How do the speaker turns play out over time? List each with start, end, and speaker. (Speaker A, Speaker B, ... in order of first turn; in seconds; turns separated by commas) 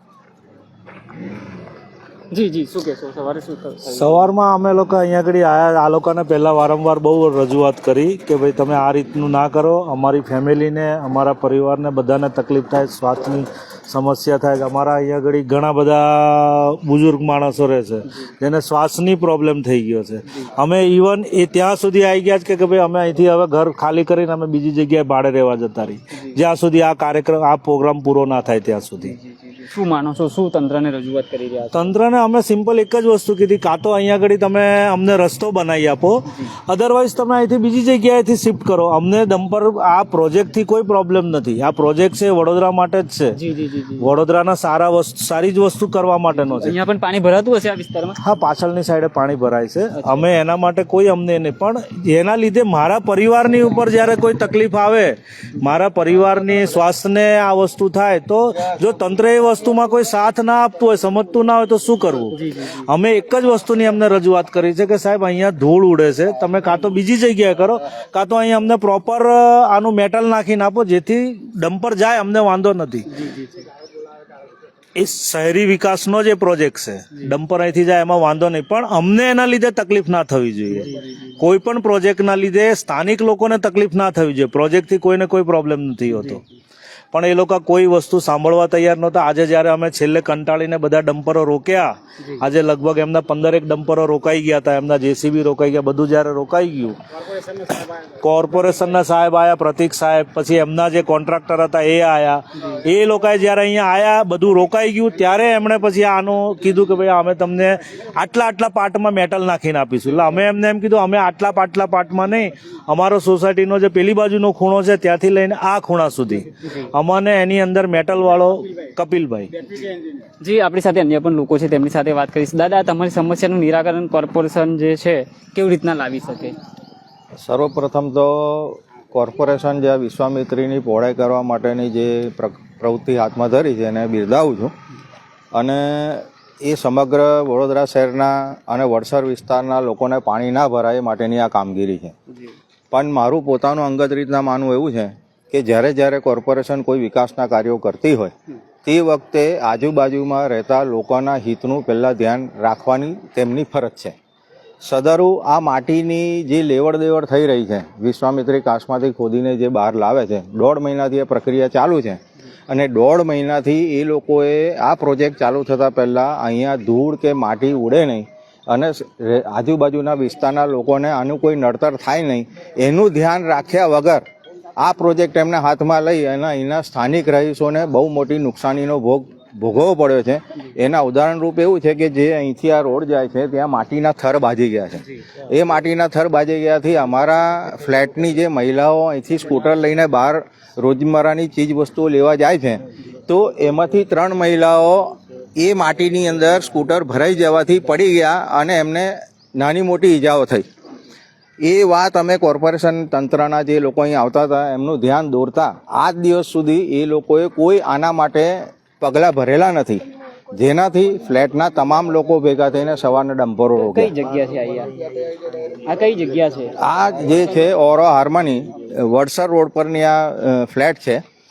Speaker A: 2.3-4.3, Speaker B: 3.9-29.1, Speaker A: 29.0-31.9, Speaker B: 31.7-43.3, Speaker A: 43.3-44.1, Speaker B: 44.0-46.7, Speaker A: 46.4-48.2, Speaker B: 48.2-62.4, Speaker A: 50.0-50.2, Speaker A: 62.3-62.9, Speaker B: 62.9-73.1, Speaker A: 73.1-73.6, Speaker B: 75.0-86.4, Speaker A: 80.7-81.3, Speaker A: 86.1-86.4, Speaker B: 87.1-97.0, Speaker B: 98.2-119.7, Speaker A: 120.4-126.6, Speaker C: 127.4-134.7, Speaker C: 135.5-142.1, Speaker C: 142.9-148.3, Speaker C: 148.8-154.1, Speaker C: 154.8-174.2, Speaker C: 174.8-200.6, Speaker C: 201.6-214.1, Speaker A: 213.8-216.7, Speaker C: 216.8-221.2